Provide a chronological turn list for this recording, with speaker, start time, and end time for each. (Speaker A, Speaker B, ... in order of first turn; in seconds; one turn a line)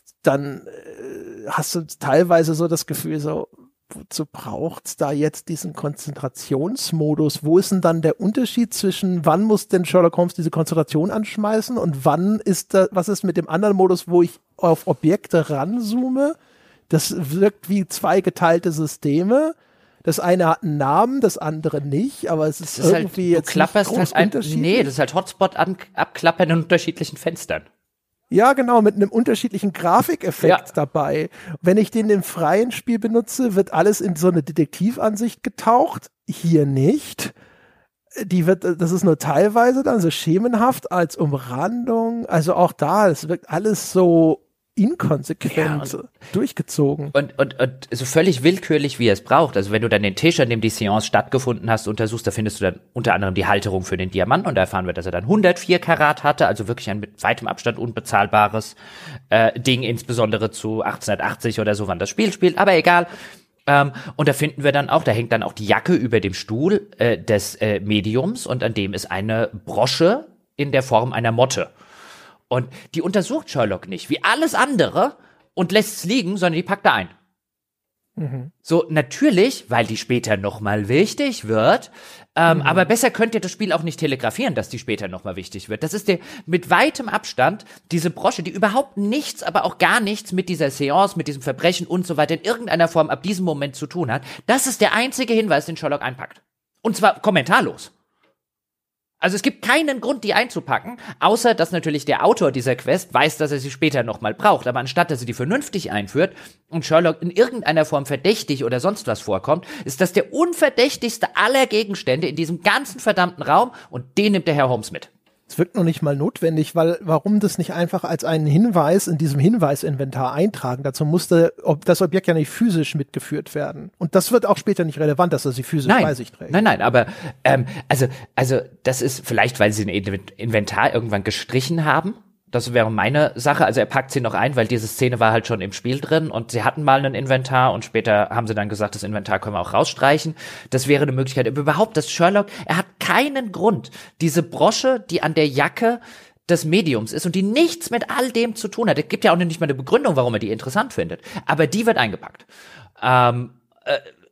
Speaker A: 0.2-16.4
Speaker A: 16.9-24.9
Speaker B: 22.6-27.6
Speaker A: 28.3-37.3
Speaker A: 38.2-47.1
Speaker B: 45.5-45.9
Speaker B: 47.1-58.8
Speaker B: 59.3-63.1
Speaker B: 63.7-71.7
Speaker B: 72.5-77.1
Speaker A: 78.2-78.5
Speaker B: 78.6-97.9
Speaker A: 82.5-82.8
Speaker B: 99.2-115.1
Speaker A: 115.5-126.6
Speaker B: 125.8-152.4
Speaker B: 153.0-154.1